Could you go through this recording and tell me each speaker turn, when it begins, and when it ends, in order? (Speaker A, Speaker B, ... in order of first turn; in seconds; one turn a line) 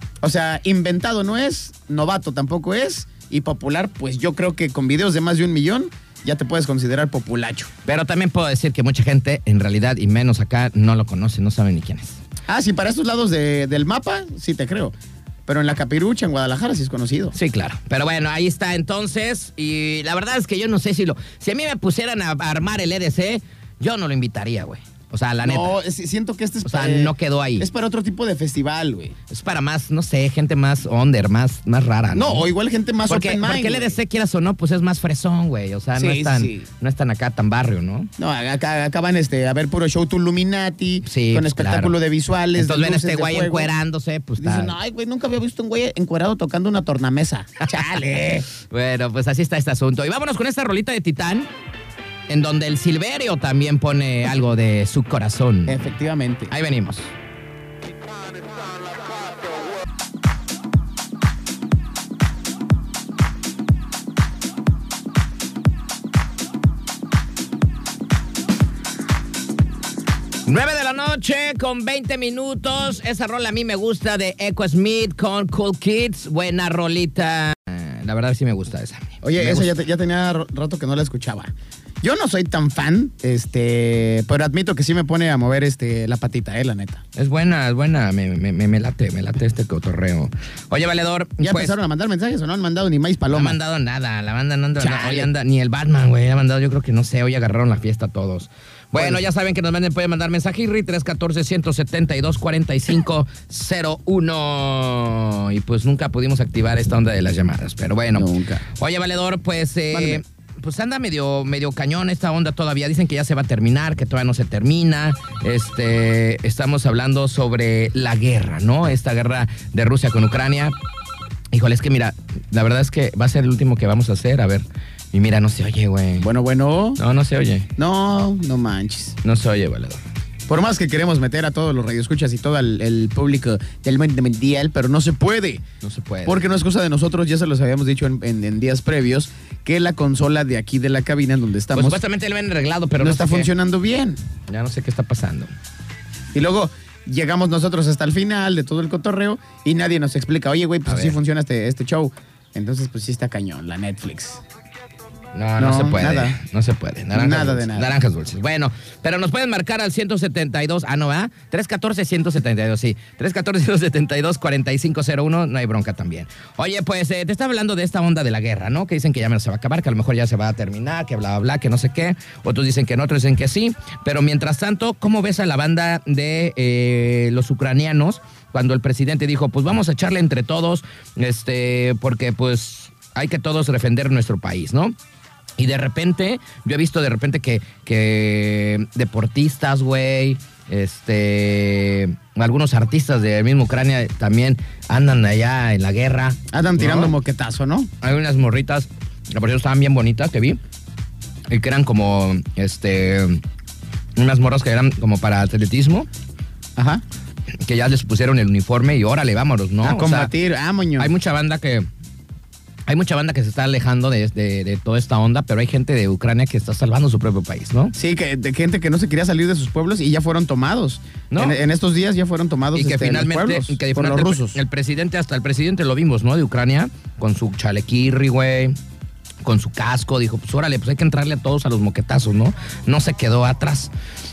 Speaker A: 0.2-7.7
Speaker B: 7.9-12.2
Speaker A: 12.5-14.9
Speaker A: 15.5-17.4
Speaker B: 17.4-25.8
Speaker A: 25.4-29.1
Speaker B: 26.6-27.7
Speaker B: 29.3-32.5
Speaker A: 32.1-34.0
Speaker B: 33.1-38.1
Speaker A: 36.0-36.7
Speaker A: 38.2-43.7
Speaker B: 41.0-42.0
Speaker B: 42.5-44.8
Speaker A: 44.4-48.5
Speaker B: 48.7-51.5
Speaker B: 52.3-55.9
Speaker A: 55.7-56.5
Speaker B: 56.5-57.1
Speaker B: 70.5-79.7
Speaker A: 79.2-87.0
Speaker B: 87.2-91.7
Speaker A: 91.4-93.6
Speaker B: 93.3-120.8
Speaker A: 94.8-95.3
Speaker A: 99.0-99.3
Speaker A: 108.2-108.7
Speaker A: 109.9-110.2
Speaker B: 121.5-126.3
Speaker A: 126.2-127.0
Speaker B: 127.0-127.7
Speaker A: 127.8-129.2
Speaker B: 129.2-130.0
Speaker A: 130.5-135.6
Speaker B: 135.8-136.4
Speaker A: 136.2-142.0
Speaker B: 141.7-143.5
Speaker A: 143.0-144.2
Speaker B: 144.5-145.5
Speaker A: 146.3-154.4
Speaker B: 150.9-151.2
Speaker B: 155.3-184.9
Speaker A: 155.6-156.4
Speaker A: 157.1-157.9
Speaker B: 185.6-197.1
Speaker A: 196.5-197.9
Speaker B: 198.0-200.6
Speaker B: 201.5-203.4
Speaker B: 204.2-206.1
Speaker A: 206.8-207.0
Speaker B: 207.6-210.3
Speaker A: 209.8-211.1
Speaker B: 211.0-211.9
Speaker B: 212.9-217.9
Speaker A: 217.9-224.6
Speaker B: 221.3-221.6
Speaker B: 222.7-228.8
Speaker B: 229.4-233.9